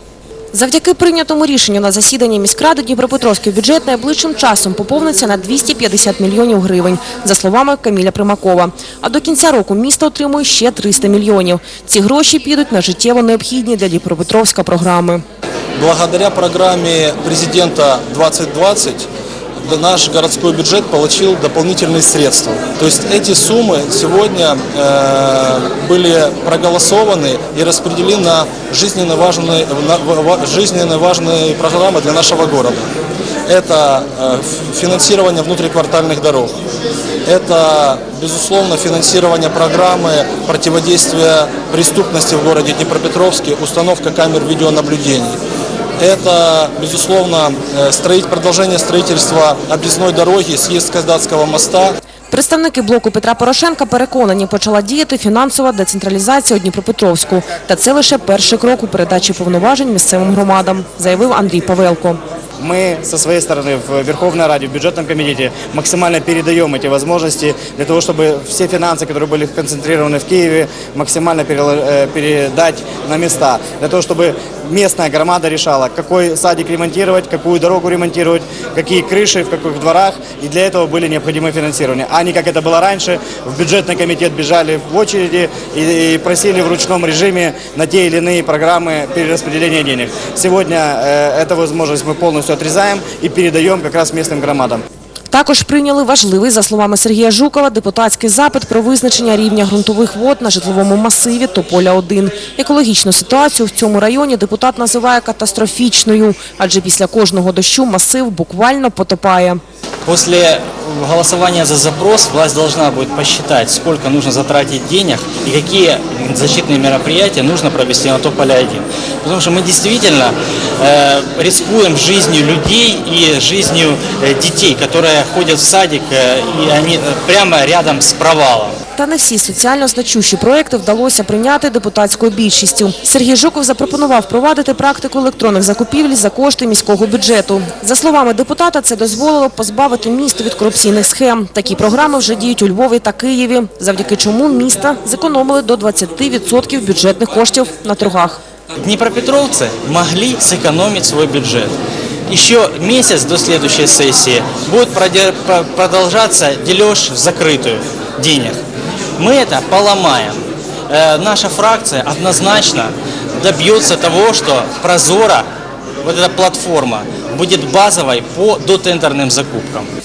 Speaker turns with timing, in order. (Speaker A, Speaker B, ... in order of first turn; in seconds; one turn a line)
Speaker A: 0.5-15.2
Speaker B: 15.8-19.1
Speaker B: 19.7-32.9
Speaker B: 33.5-36.5
Speaker B: 37.2-45.4
Speaker B: 46.0-52.0
Speaker A: 52.3-62.2
Speaker C: 62.6-94.8
Speaker A: 95.3-109.6
Speaker D: 110.0-128.8
Speaker A: 129.0-148.4
Speaker D: 148.8-151.7
Speaker D: 152.3-158.6
Speaker D: 159.2-165.5
Speaker D: 166.0-169.9